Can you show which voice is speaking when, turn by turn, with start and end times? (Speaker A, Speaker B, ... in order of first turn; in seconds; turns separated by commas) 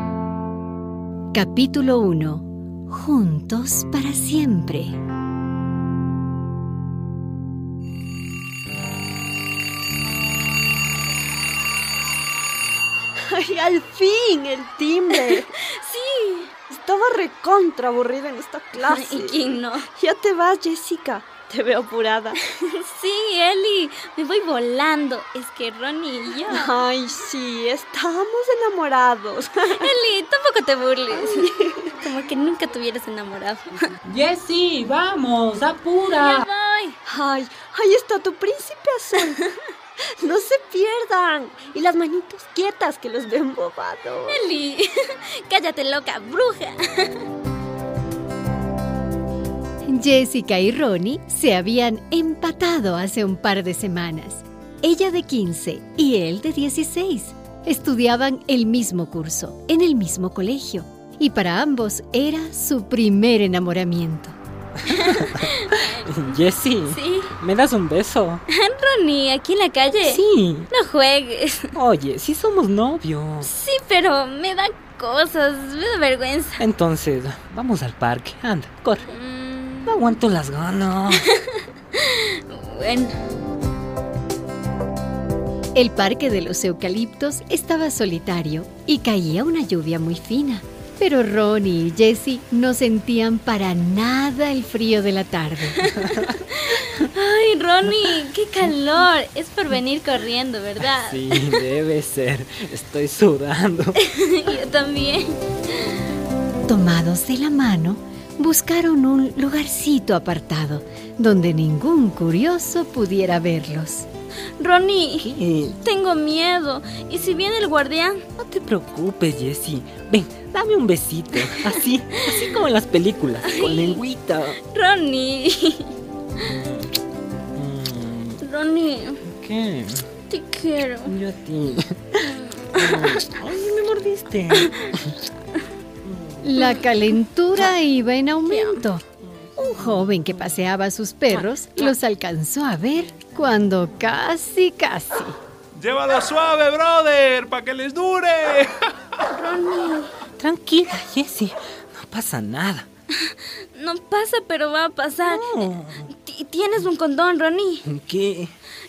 Speaker A: 1.3-5.0, Speaker B: 13.3-15.5, Speaker C: 15.1-16.5, Speaker B: 16.7-22.4, Speaker C: 18.8-19.9, Speaker C: 22.5-26.7, Speaker B: 26.5-29.9, Speaker C: 29.7-33.9, Speaker B: 31.1-31.9, Speaker D: 34.0-36.4, Speaker C: 36.1-37.0, Speaker B: 37.0-39.4, Speaker B: 40.2-44.4, Speaker C: 44.3-47.2, Speaker A: 49.9-64.3, Speaker D: 64.9-68.4, Speaker C: 64.9-66.4, Speaker C: 66.9-67.3, Speaker C: 68.5-71.7, Speaker D: 70.0-70.7, Speaker D: 71.7-73.5, Speaker C: 73.4-76.6, Speaker D: 76.6-79.1, Speaker C: 79.1-80.1, Speaker D: 79.8-81.3, Speaker C: 81.3-83.2, Speaker A: 85.7-95.9, Speaker C: 95.8-101.6, Speaker D: 100.9-104.0, Speaker C: 104.0-105.4, Speaker A: 106.7-114.1, Speaker C: 114.6-115.3, Speaker D: 115.2-115.8, Speaker C: 115.8-118.2, Speaker D: 118.4-124.6, Speaker C: 123.4-124.0, Speaker C: 124.6-125.9, Speaker D: 126.4-126.9, Speaker D: 127.5-128.4, Speaker C: 128.4-129.2, Speaker D: 129.2-130.1, Speaker C: 130.3-131.1, Speaker D: 131.1-135.2, Speaker C: 132.7-133.2, Speaker A: 136.4-139.0, Speaker C: 138.5-138.8, Speaker A: 139.6-145.4, Speaker E: 145.8-148.7, Speaker C: 149.3-150.1, Speaker D: 150.4-152.9, Speaker C: 153.2-155.5, Speaker D: 155.2-156.1, Speaker C: 156.1-157.8, Speaker D: 157.8-158.5